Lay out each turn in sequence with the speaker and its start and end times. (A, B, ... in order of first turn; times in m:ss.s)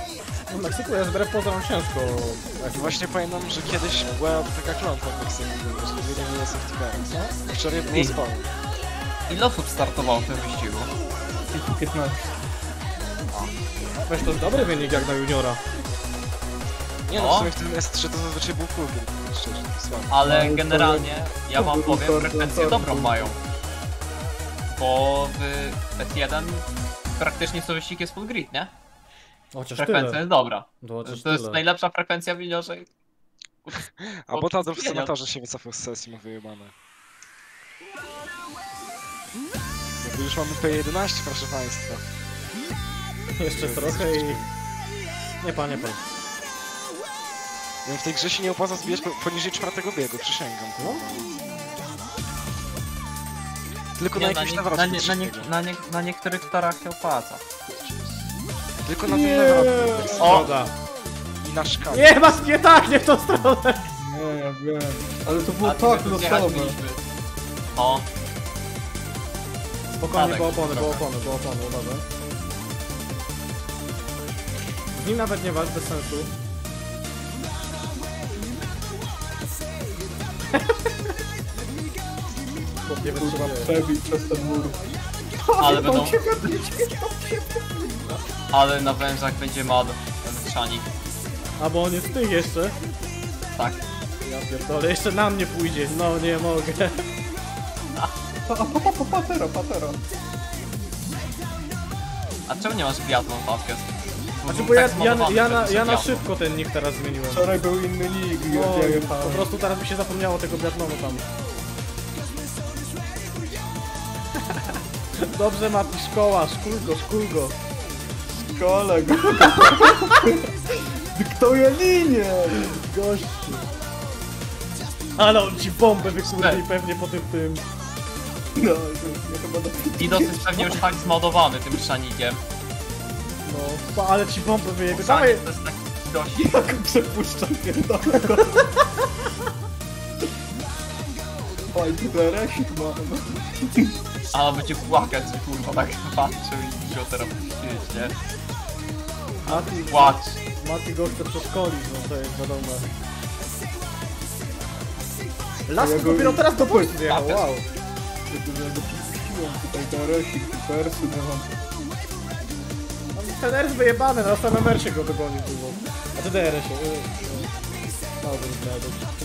0:00.5-0:03.0 A
0:02.7-0:08.5 B
0:07.9-0:08.2 C
0:09.3-0:10.9 C
0:11.5-0:12.3 D
0:14.0-0:15.6 A
0:14.4-0:15.0 C
0:17.1-0:20.2 B
0:17.1-0:17.5 C
0:20.1-0:23.4 C
0:20.2-0:23.4 D
0:24.7-0:28.7 C
0:29.5-0:30.2 A
0:29.8-0:32.9 C
0:30.8-0:31.6 A
0:33.6-0:36.7 B
0:34.3-0:35.1 C
0:40.0-0:42.0 B
0:43.4-0:44.4 A
0:43.4-0:44.5 B
0:45.4-0:46.0 A
0:47.8-0:51.3 B
0:50.8-0:51.0 A
0:54.0-0:55.5 B
0:54.1-0:57.4 C
0:58.8-1:00.6 B
0:59.1-1:00.4 D
1:00.2-1:00.5 C
1:00.2-1:00.7 A
1:01.4-1:02.3 B
1:01.9-1:03.9 A
1:04.0-1:06.8 D
1:05.6-1:07.0 C
1:07.7-1:08.0 C
1:10.0-1:12.0 A
1:10.1-1:11.0 C
1:14.9-1:16.3 A
1:20.5-1:20.9 A
1:22.9-1:24.8 D
1:23.0-1:23.8 A
1:25.4-1:28.2 D
1:25.6-1:26.2 C
1:28.5-1:30.9 C
1:31.6-1:32.8 A
1:33.5-1:33.8 C
1:34.2-1:37.1 A
1:38.5-1:40.0 D
1:42.5-1:46.2 C
1:44.5-1:47.5 A
1:47.3-1:49.5 D
1:48.5-1:51.3 A
1:54.5-1:57.6 A
1:58.3-2:02.7 D
1:59.5-2:00.0 A
2:02.6-2:03.7 A
2:05.2-2:07.6 A
2:06.2-2:06.6 C
2:08.5-2:10.8 D
2:10.0-2:12.4 C
2:13.4-2:15.4 A
2:14.9-2:16.7 C
2:16.4-2:18.6 D
2:18.6-2:18.8 A
2:21.7-2:24.0 D
2:24.3-2:28.1 C
2:29.4-2:30.4 C
2:29.4-2:32.9 A
2:35.7-2:37.6 A
2:35.8-2:37.0 D
2:37.0-2:37.4 C
2:38.3-2:41.5 D
2:43.1-2:47.5 A
2:48.2-2:49.1 A